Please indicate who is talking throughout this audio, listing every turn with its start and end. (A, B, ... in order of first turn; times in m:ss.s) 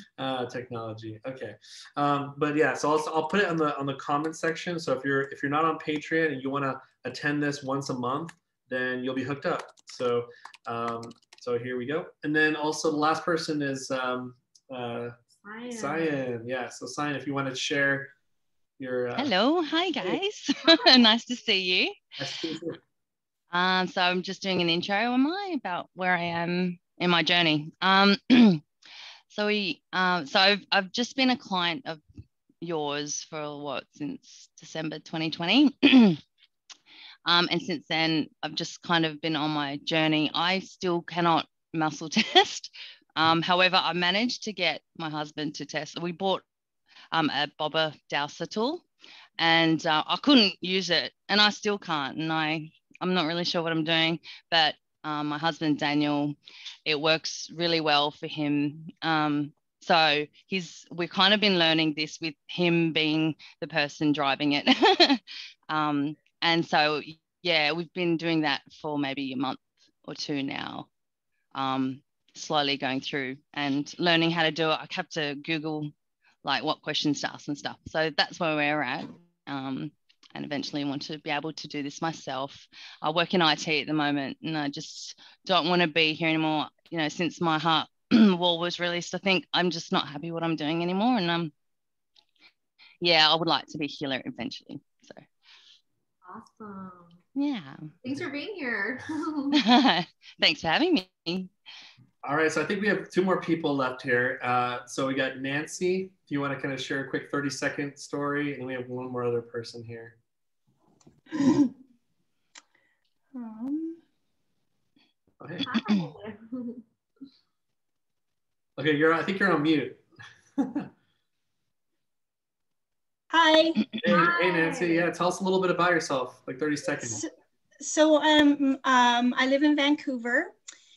0:00.2-0:15.1 A
0:15.4-0:16.1 B
0:15.7-0:18.1 A
0:18.8-0:19.3 A
0:19.2-0:22.0 C
0:22.2-0:22.8 A
0:23.5-0:28.6 C
0:29.3-0:32.0 C
0:32.6-0:36.2 C
0:37.2-0:46.4 C
0:47.1-0:48.8 C
0:49.4-1:10.9 C
1:11.5-1:15.9 C
1:16.4-1:31.5 C
1:33.0-1:35.3 C
1:36.2-1:37.2 B
1:37.4-1:37.9 C
1:38.0-1:39.6 B
1:39.5-1:41.5 C
1:42.2-1:50.2 A
1:53.3-1:54.0 D
1:55.4-1:55.8 A
1:55.6-1:56.8 B
1:58.8-2:00.0 A
2:00.6-2:00.9 A
2:03.3-2:04.0 D
2:04.0-2:07.2 A
2:04.0-2:05.1 B
2:07.8-2:10.5 D